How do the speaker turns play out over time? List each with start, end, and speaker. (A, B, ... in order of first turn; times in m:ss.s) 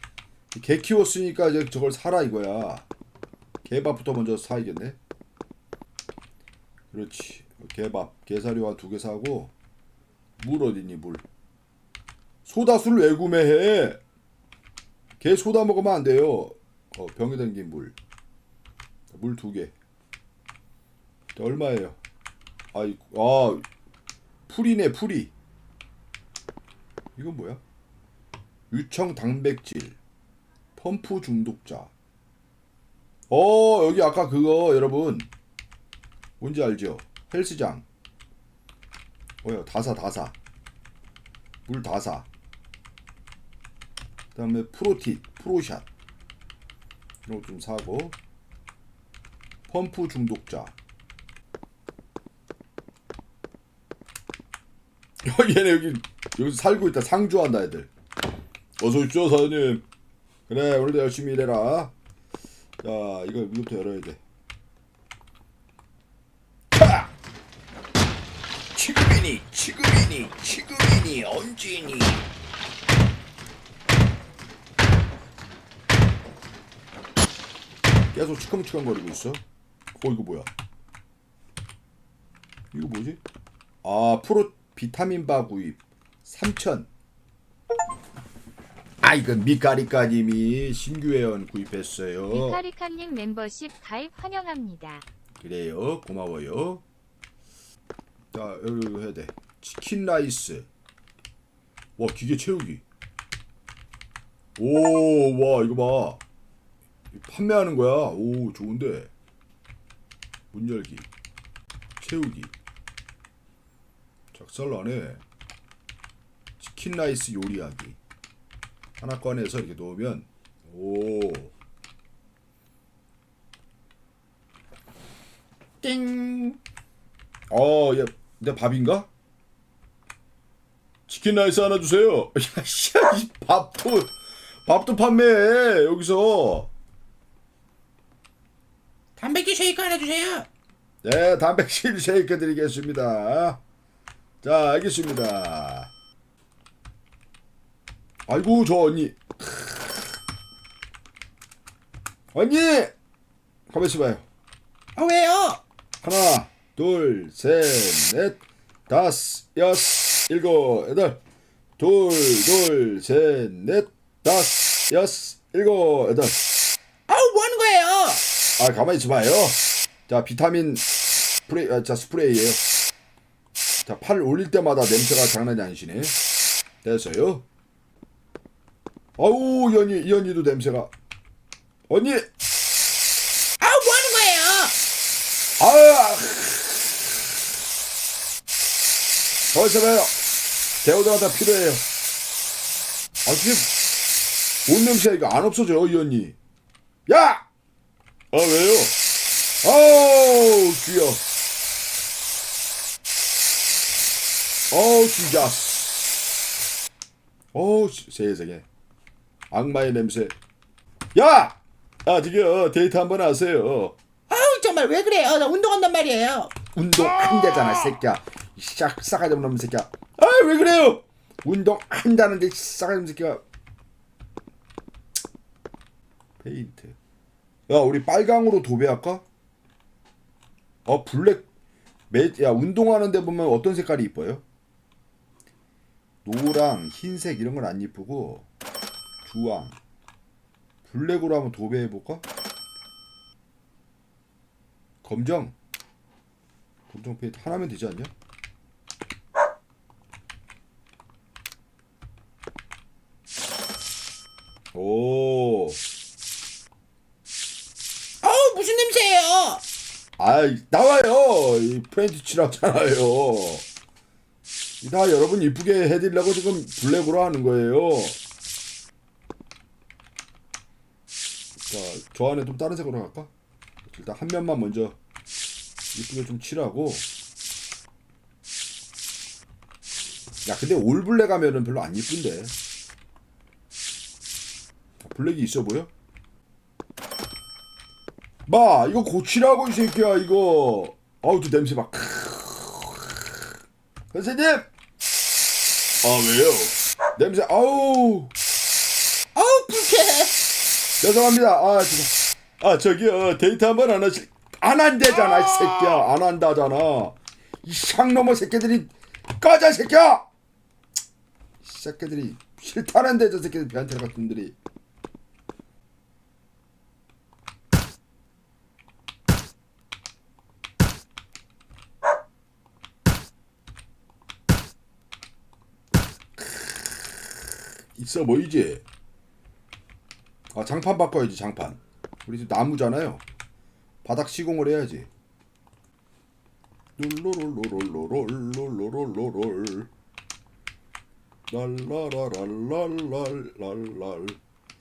0:00.5-0:02.8 A
0:03.6-0:05.0 A
0:06.9-0:09.5 A
0:10.4-0:11.2 A
0:12.4-0:14.0 A
0:15.2-0:18.0 A
0:19.1-0:19.7 A
0:21.4-0:22.0 A
0:22.7-0:23.6 A
0:24.5-0:25.3 A
0:27.2-0:27.6 A
0:28.7-0:30.0 A
0:30.8-0:31.9 A
0:33.3-0:35.3 A
0:36.4-0:37.8 A
0:39.4-0:40.3 A
0:41.6-0:42.3 A
0:44.3-0:45.8 A
0:47.2-0:48.2 A
0:49.7-0:50.7 A
0:55.2-0:57.9 A
0:58.8-0:59.8 A
1:00.5-1:01.9 A
1:02.8-1:04.2 A
1:06.7-1:07.1 A
1:08.7-1:12.2 A
1:18.1-1:19.4 A
1:20.0-1:20.5 A
1:22.7-1:23.2 A
1:23.8-1:26.9 A
1:29.0-1:32.6 A
1:32.3-1:35.0 B
1:35.4-1:36.8 A
1:38.3-1:40.7 A
1:42.0-1:42.8 A
1:44.6-1:46.2 A
1:47.1-1:49.1 A
1:50.5-1:51.1 A
1:52.0-1:52.5 A
1:54.3-1:55.2 A
1:56.6-1:58.0 A
1:59.0-2:01.5 A
2:05.8-2:06.6 A
2:07.5-2:09.1 A
2:11.1-2:14.1 A
2:14.6-2:16.7 A
2:19.2-2:20.5 C
2:21.0-2:23.6 A
2:24.4-2:25.9 A
2:28.3-2:30.0 A
2:32.3-2:32.9 A
2:33.7-2:34.2 A
2:35.0-2:35.6 C
2:36.0-2:41.2 A
2:41.8-2:46.4 A
2:47.1-2:48.2 C
2:48.6-2:50.8 A
2:51.5-2:52.6 A
2:53.8-2:56.1 A
2:56.8-2:57.4 A
2:59.2-3:00.9 A
3:01.9-3:02.2 A
3:03.6-3:04.7 C
3:05.6-3:07.0 A
3:09.5-3:10.1 A
3:10.8-3:11.8 A
3:13.2-3:13.7 A
3:14.7-3:16.4 A
3:17.1-3:17.4 A
3:18.3-3:19.0 A
3:19.6-3:21.2 A
3:24.7-3:25.9 A
3:27.5-3:28.6 A
3:29.5-3:30.4 A
3:31.1-3:34.0 A
3:34.3-3:36.5 C
3:36.7-3:43.4 A
3:46.4-3:47.0 A
3:47.7-3:49.2 A
3:50.8-3:51.5 A
3:52.1-3:54.4 A
3:56.2-3:58.5 A
3:59.2-3:59.8 A
4:00.8-4:02.2 A
4:05.0-4:05.5 A
4:06.9-4:08.1 A
4:14.7-4:15.8 A
4:18.2-4:19.6 C
4:20.2-4:23.6 A
4:24.8-4:28.2 A
4:31.7-4:33.3 A
4:33.9-4:35.0 A
4:35.9-4:37.0 A
4:40.4-4:42.5 A
4:45.0-4:45.9 A
4:48.5-4:53.1 A
4:54.1-4:54.6 A
4:56.0-4:58.3 A
4:59.3-5:00.3 C
5:01.0-5:10.3 A
5:11.6-5:14.5 A
5:27.9-5:28.8 A
5:30.5-5:33.2 A
5:34.0-5:35.1 A
5:37.0-5:39.9 A
5:41.5-5:44.4 A